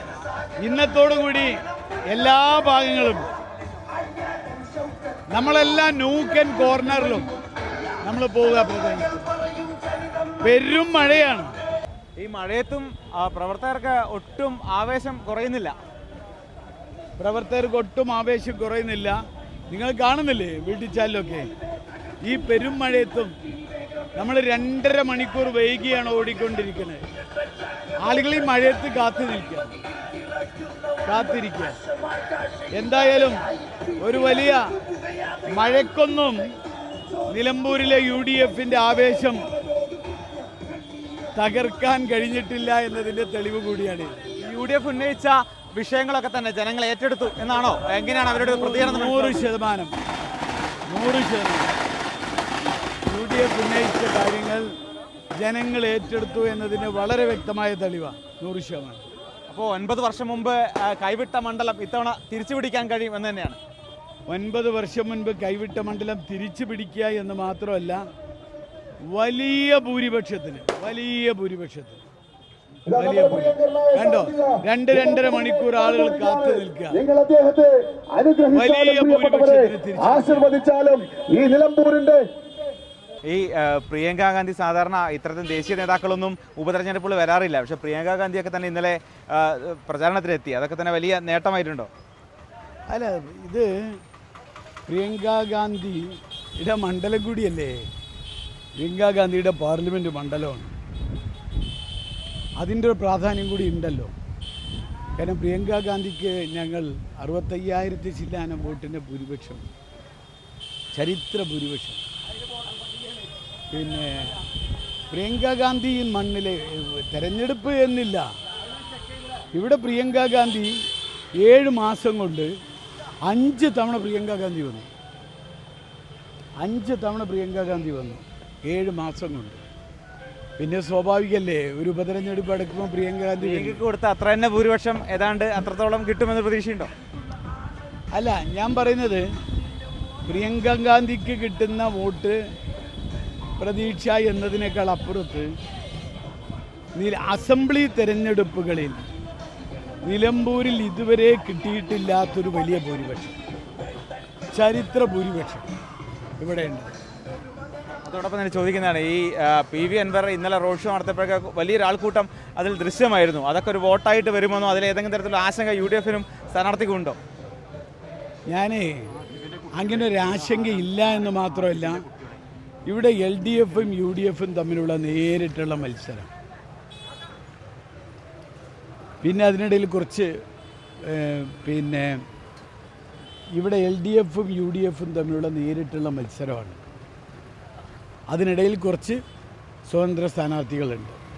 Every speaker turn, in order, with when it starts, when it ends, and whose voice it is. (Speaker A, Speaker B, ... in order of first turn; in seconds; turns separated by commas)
Speaker A: 0.6-1.5, Speaker A: 2.1-3.3, Speaker A: 5.3-7.3, Speaker A: 8.0-9.2, Speaker A: 10.4-11.5, Speaker B: 12.2-15.7, Speaker A: 17.2-19.2, Speaker A: 19.7-21.5, Speaker A: 22.2-23.3, Speaker A: 24.2-27.0, Speaker A: 28.0-29.8, Speaker A: 31.1-31.8, Speaker A: 32.7-33.4, Speaker A: 34.0-34.7, Speaker A: 35.5-36.5, Speaker A: 37.3-39.5, Speaker A: 41.4-44.2, Speaker B: 44.4-49.5, Speaker A: 48.4-49.9, Speaker A: 50.9-51.8, Speaker A: 53.0-54.7, Speaker A: 55.4-59.0, Speaker B: 59.5-63.6, Speaker A: 64.3-68.0, Speaker A: 69.1-72.0, Speaker C: 72.9-82.3, Speaker A: 72.9-77.0, Speaker A: 78.5-80.6, Speaker B: 83.2-91.9, Speaker A: 92.9-94.0, Speaker A: 94.9-97.9, Speaker A: 98.8-100.7, Speaker A: 102.6-104.1, Speaker A: 105.2-109.6, Speaker A: 110.9-112.0, Speaker A: 113.7-114.4, Speaker A: 115.1-118.3, Speaker A: 119.5-120.8, Speaker A: 121.4-122.5, Speaker A: 123.2-124.9, Speaker A: 126.6-129.6, Speaker A: 130.6-133.8, Speaker B: 133.4-136.9, Speaker A: 138.1-139.2, Speaker A: 140.2-142.4, Speaker A: 143.6-145.5, Speaker A: 146.9-149.0, Speaker A: 150.0-153.4, Speaker A: 154.5-155.7, Speaker A: 156.4-156.9, Speaker B: 158.0-167.2, Speaker A: 168.5-169.2, Speaker A: 169.7-172.1, Speaker A: 172.8-176.3, Speaker A: 179.2-180.3, Speaker A: 181.0-182.2, Speaker A: 183.5-186.8, Speaker A: 188.3-189.2, Speaker A: 189.9-191.2